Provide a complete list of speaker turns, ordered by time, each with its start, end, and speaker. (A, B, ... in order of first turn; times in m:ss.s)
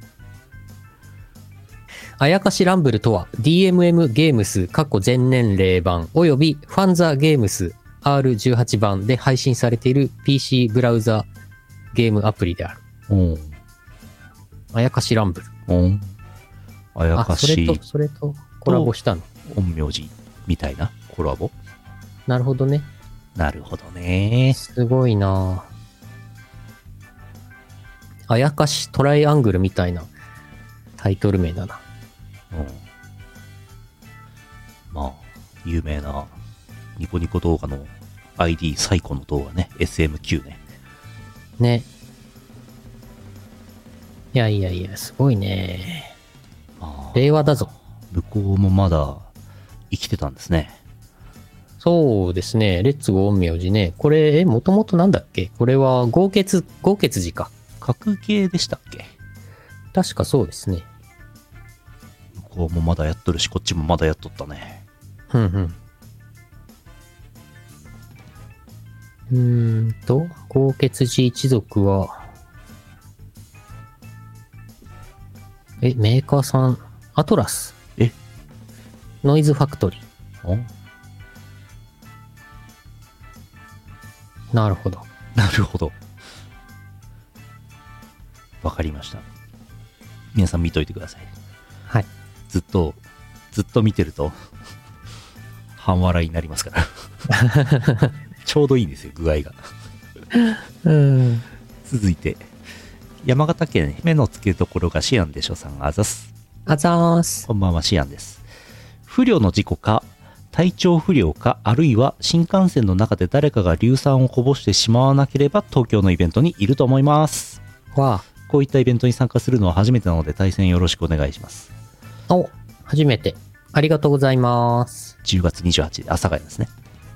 0:02.2-0:11.3 A
0:11.9-0:12.8 A
0:13.1-0:13.6 B
0:14.7-0:15.5 A
0:15.7-0:16.1 B
0:17.0-0:17.8 B
0:17.2-0:19.3 A
0:18.7-0:18.9 B
0:19.5-0:21.5 B
0:22.3-0:22.9 A
0:23.4-0:24.6 B
0:24.5-0:25.7 A
0:28.3-0:30.1 A
0:31.0-0:31.8 A
0:32.5-0:32.8 B
0:34.9-0:36.3 B
0:37.0-0:40.6 B
0:41.6-0:41.9 A
0:44.3-0:46.1 A
0:46.8-0:49.3 B
0:47.2-0:47.7 A
0:49.9-0:50.8 B
0:51.8-0:57.5 A
0:57.8-0:59.1 B
1:00.0-1:00.9 A
1:02.4-1:04.8 B
1:05.3-1:05.8 A
1:09.3-1:12.2 A
1:15.8-1:17.8 A
1:19.2-1:20.0 A
1:20.4-1:20.7 B
1:24.5-1:25.1 A
1:25.4-1:26.0 B
1:28.6-1:29.2 B
1:30.3-1:31.3 B
1:32.5-1:33.0 B
1:33.5-1:34.4 B
1:35.8-1:36.9 B
1:37.3-1:38.1 A
1:38.4-1:39.6 B
1:40.4-1:41.4 A
1:41.8-1:42.5 B
1:43.2-1:46.3 B
1:46.7-1:47.5 A
1:47.5-1:48.4 B
1:49.1-1:57.6 B
1:58.0-1:58.2 A
1:58.5-2:01.7 B
2:02.3-2:05.1 A
2:05.2-2:06.7 B